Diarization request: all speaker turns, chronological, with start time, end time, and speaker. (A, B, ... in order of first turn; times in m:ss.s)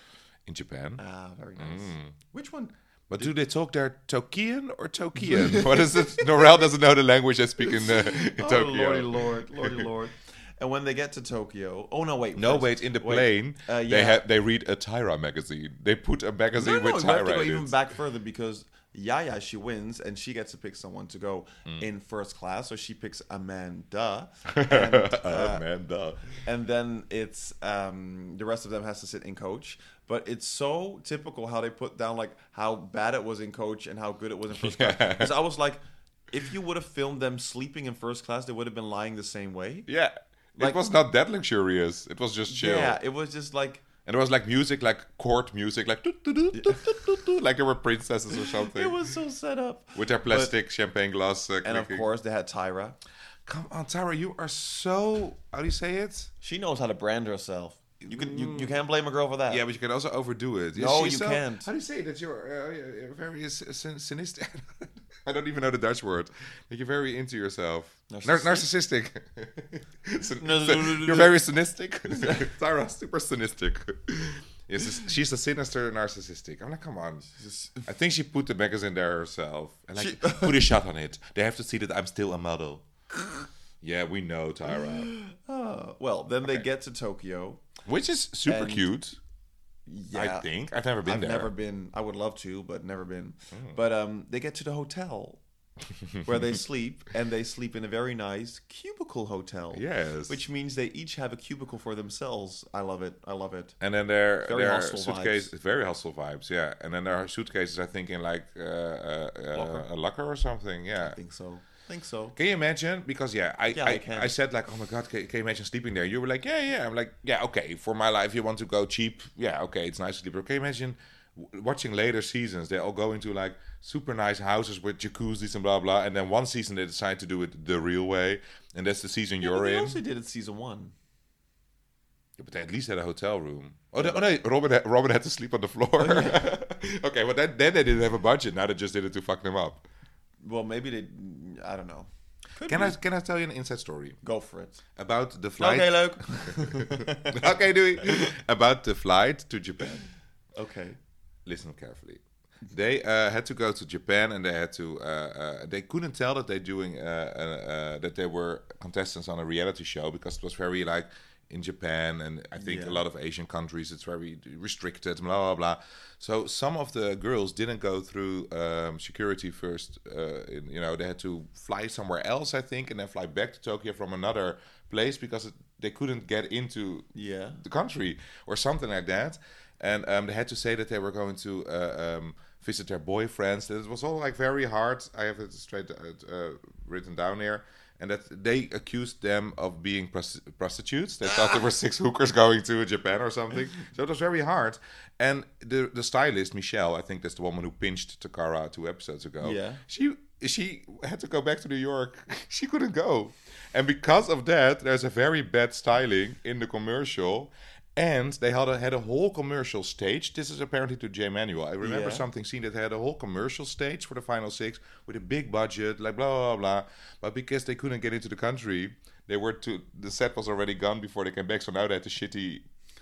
0:00.5-0:01.0 A
0:01.0-0:03.3 B
0:01.6-0:02.1 A
0:03.1-0:09.9 A
0:05.2-0:06.6 B
0:07.6-0:14.2 B
0:12.3-0:17.8 A
0:16.6-0:25.6 B
0:24.5-0:26.4 A
0:26.4-0:39.9 B
0:34.5-0:35.3 A
0:39.9-0:43.0 A
0:40.6-0:40.9 B
0:42.5-0:43.8 B
0:44.0-0:49.1 A
0:46.6-0:47.0 B
0:48.4-0:50.5 B
0:50.0-0:52.1 A
0:51.6-0:53.0 B
0:53.5-0:56.3 A
0:56.4-0:59.6 B
0:58.0-0:58.7 A
0:59.5-1:17.3 A
1:00.7-1:01.7 B
1:08.1-1:08.6 B
1:10.4-1:11.3 B
1:12.1-1:12.4 B
1:17.2-1:17.8 B
1:17.8-1:22.8 A
1:20.0-1:20.7 B
1:23.8-1:25.1 A
1:24.7-1:27.6 B
1:27.8-1:29.2 A
1:28.4-1:28.9 B
1:29.8-1:30.5 B
1:30.1-1:31.5 A
1:31.0-1:35.4 B
1:33.5-1:33.8 A
1:36.0-1:36.4 A
1:36.2-1:43.8 B
1:39.7-1:40.4 A
1:43.8-1:51.2 A
1:44.4-1:45.5 B
1:49.5-1:49.9 B
1:51.0-1:52.4 B
1:52.4-2:10.0 A
1:53.7-1:54.3 B
2:09.4-2:10.9 B
2:12.4-2:19.8 A
2:14.0-2:14.2 B
2:16.0-2:16.5 B
2:20.4-2:23.0 B
2:22.6-2:24.2 A
2:24.2-2:24.8 B
2:25.0-2:30.0 A
2:25.6-2:27.6 B
2:30.6-2:31.0 B
2:31.4-2:57.1 A
2:42.6-2:43.0 B
2:57.1-2:57.6 B
2:57.6-3:42.6 A
3:11.2-3:11.6 B
3:19.4-3:19.8 B
3:31.8-3:32.2 B